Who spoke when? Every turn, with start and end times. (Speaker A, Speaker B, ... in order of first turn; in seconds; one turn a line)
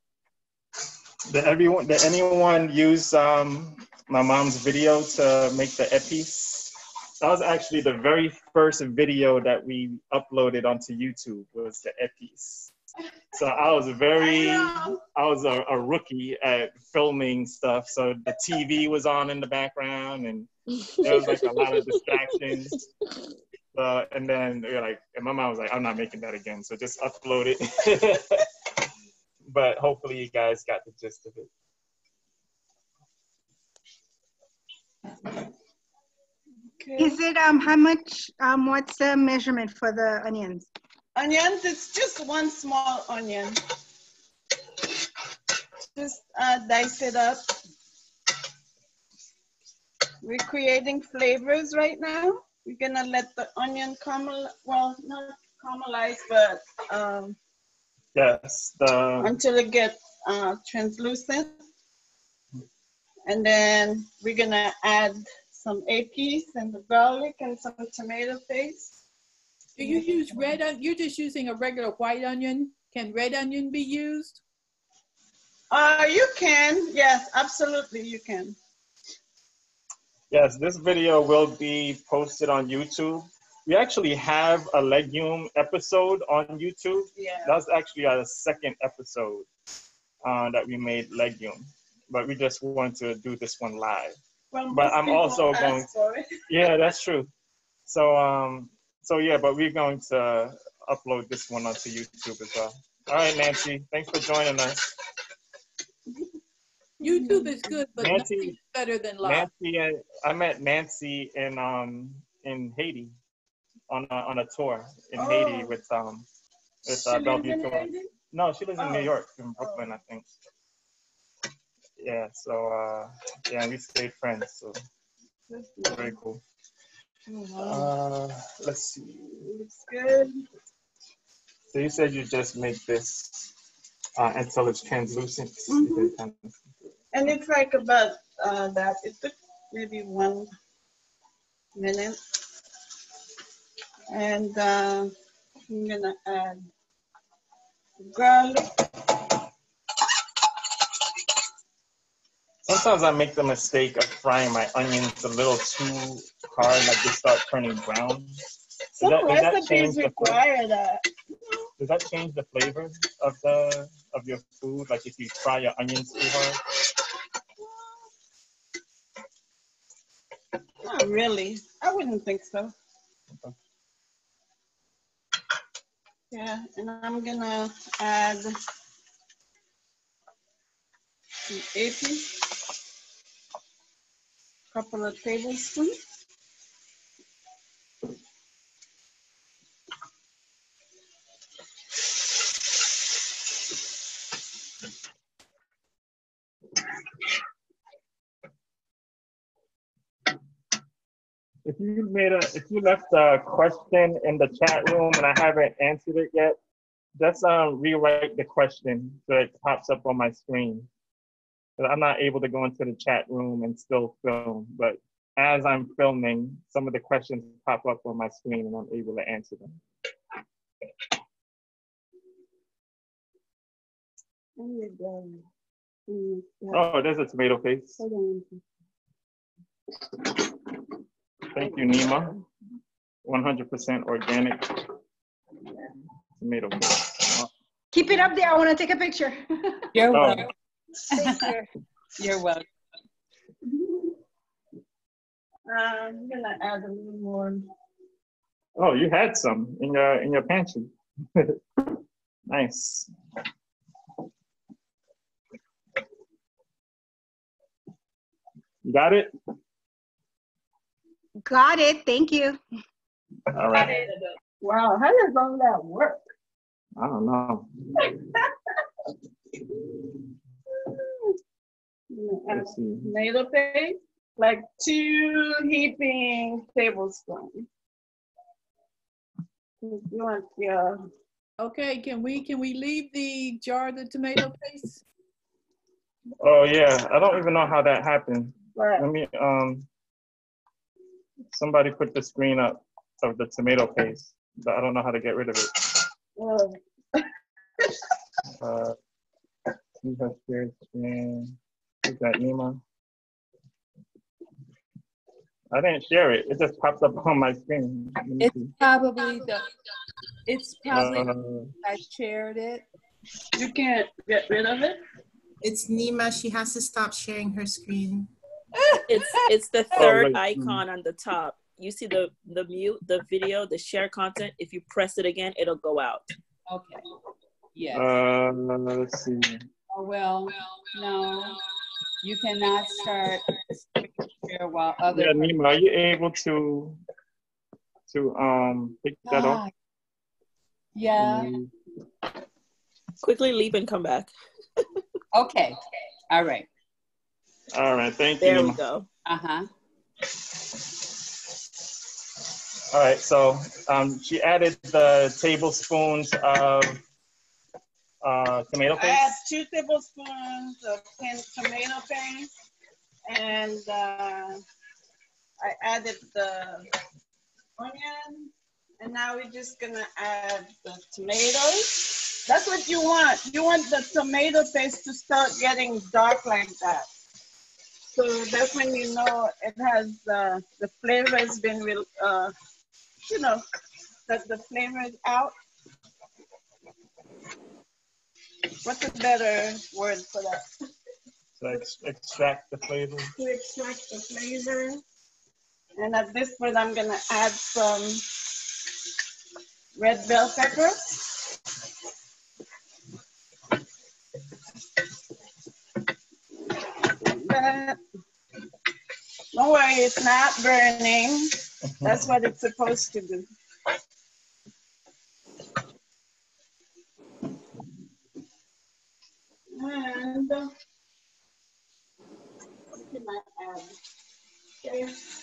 Speaker A: 1.3-12.7
Speaker A: 13.3-22.8
Speaker B: 14.2-15.0
Speaker A: 23.7-28.5
Speaker A: 29.4-31.5
Speaker B: 36.8-37.2
Speaker C: 37.0-40.7
Speaker B: 41.1-43.6
Speaker B: 46.0-47.4
Speaker B: 50.2-57.4
Speaker A: 58.1-59.4
Speaker B: 59.2-61.6
Speaker B: 63.3-68.9
Speaker D: 69.8-74.4
Speaker B: 69.8-70.4
Speaker B: 75.7-78.5
Speaker A: 80.3-89.5
Speaker B: 87.2-87.5
Speaker A: 90.2-94.2
Speaker B: 94.5-96.4
Speaker A: 94.7-95.9
Speaker A: 96.5-97.3
Speaker A: 97.9-104.9
Speaker B: 107.0-107.7
Speaker D: 107.0-109.5
Speaker A: 108.0-108.5
Speaker A: 109.2-113.1
Speaker A: 113.9-116.2
Speaker B: 115.2-115.7
Speaker A: 116.8-120.3
Speaker B: 116.9-118.1
Speaker B: 118.8-119.9
Speaker A: 122.0-124.8
Speaker B: 125.5-126.1
Speaker A: 125.8-126.4
Speaker B: 127.3-127.9
Speaker A: 127.6-129.4
Speaker B: 129.4-130.4
Speaker A: 131.7-133.5
Speaker A: 134.2-136.6
Speaker B: 135.7-136.1
Speaker B: 137.1-140.5
Speaker B: 141.8-142.2
Speaker B: 144.1-145.1
Speaker B: 145.7-146.7
Speaker B: 148.0-148.7
Speaker A: 152.6-158.4
Speaker B: 158.9-161.1
Speaker A: 159.0-160.4
Speaker A: 161.8-166.6
Speaker B: 167.6-168.0
Speaker B: 170.8-172.7
Speaker B: 176.3-178.6
Speaker B: 181.5-182.5
Speaker B: 184.7-186.0
Speaker A: 201.6-206.6
Speaker A: 207.2-210.9
Speaker A: 211.8-219.8
Speaker B: 224.6-225.4
Speaker B: 226.1-226.8
Speaker A: 226.7-228.0
Speaker B: 228.0-228.6
Speaker A: 231.5-232.3
Speaker B: 231.6-232.4
Speaker A: 233.2-234.7
Speaker B: 235.6-235.9
Speaker A: 236.4-237.5
Speaker C: 237.9-239.4
Speaker E: 239.9-240.5
Speaker A: 240.1-240.5
Speaker E: 241.1-242.6
Speaker B: 243.6-244.1
Speaker B: 245.7-247.7
Speaker A: 248.8-251.6
Speaker A: 252.5-253.1
Speaker A: 258.8-259.3
Speaker C: 261.4-262.6
Speaker A: 263.5-264.0
Speaker B: 264.6-266.2
Speaker A: 267.0-268.0
Speaker B: 268.0-268.4
Speaker B: 270.8-271.3
Speaker B: 272.1-277.7
Speaker A: 272.5-273.1
Speaker B: 279.8-281.1
Speaker D: 281.6-285.0
Speaker A: 286.4-289.9
Speaker B: 288.8-289.1
Speaker A: 291.5-295.8
Speaker B: 296.4-297.3
Speaker A: 298.6-298.9
Speaker A: 300.0-302.8
Speaker A: 305.7-308.7
Speaker D: 308.4-309.6
Speaker E: 308.8-309.4
Speaker D: 310.5-311.3
Speaker E: 310.6-311.2
Speaker A: 310.9-311.7
Speaker D: 311.8-312.8
Speaker B: 313.6-315.0
Speaker F: 315.6-318.3
Speaker G: 319.1-326.2
Speaker A: 319.9-320.8
Speaker E: 326.7-327.0
Speaker E: 327.8-328.1
Speaker A: 327.9-329.7
Speaker E: 329.9-331.5
Speaker E: 332.2-333.5
Speaker E: 334.4-335.5
Speaker A: 335.1-337.0
Speaker A: 338.1-339.6
Speaker E: 339.3-339.6
Speaker E: 341.0-341.4
Speaker D: 341.1-341.5
Speaker A: 341.2-341.7
Speaker G: 343.2-344.3
Speaker E: 345.3-345.8
Speaker E: 346.3-346.7
Speaker A: 347.7-348.8
Speaker G: 348.4-349.1
Speaker E: 349.2-349.7
Speaker A: 352.9-357.0
Speaker A: 358.2-359.4
Speaker B: 359.0-362.5
Speaker B: 363.3-364.6
Speaker B: 365.6-366.9
Speaker B: 367.8-377.1
Speaker B: 378.1-382.5
Speaker B: 383.2-383.6
Speaker B: 384.3-385.5
Speaker B: 388.8-390.7
Speaker A: 391.6-393.3
Speaker B: 393.4-395.0
Speaker B: 395.9-398.6
Speaker B: 399.9-401.4
Speaker B: 406.6-408.0
Speaker B: 409.5-413.5
Speaker A: 411.9-412.3
Speaker B: 419.7-420.7
Speaker B: 422.9-423.9
Speaker B: 424.8-425.2